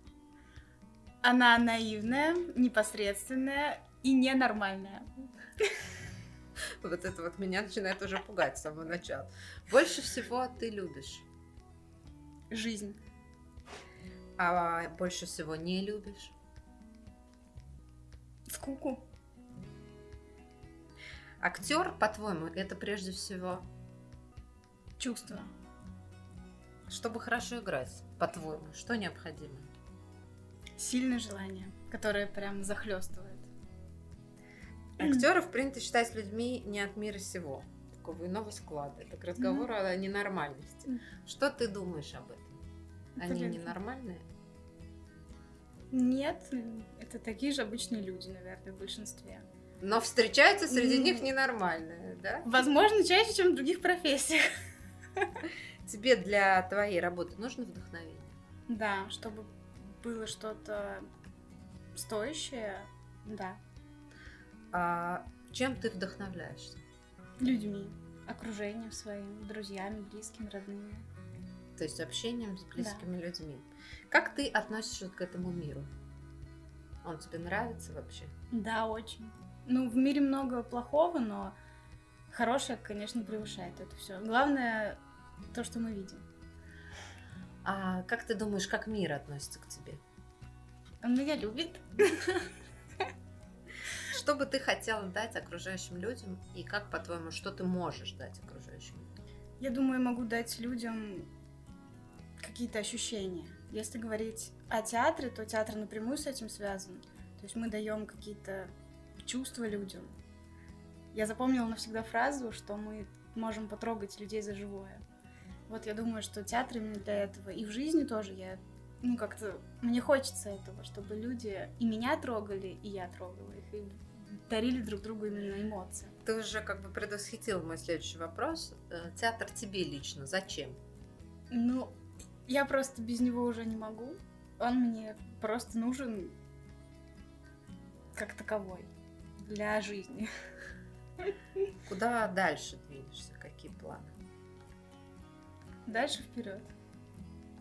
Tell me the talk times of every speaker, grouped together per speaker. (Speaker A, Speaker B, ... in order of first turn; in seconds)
Speaker A: 1.2-5.1, 12.5-13.0, 18.5-19.1, 25.0-25.5, 30.8-33.5, 39.4-39.7, 43.2-43.8, 45.9-49.5, 50.7-51.3, 52.4-54.5, 55.2-55.4, 58.7-61.1, 62.0-63.6, 67.4-71.1, 72.8-73.0, 78.5-81.5, 82.3-85.0, 85.5-86.2, 91.0-92.5, 99.6-101.3, 102.4-108.7, 109.2-110.1, 111.1-115.0, 115.7-126.1, 131.5-136.4, 138.1-138.9, 139.4-140.3, 145.9-146.7
Speaker B: 6.8-11.3, 14.4-16.3, 21.4-23.7, 26.9-29.7, 35.0-42.6, 43.2-44.2, 49.8-52.5, 55.8-58.4, 64.7-66.8, 71.8-75.9, 77.0-78.3, 87.6-90.0, 94.1-99.1, 126.2-130.8, 141.8-144.2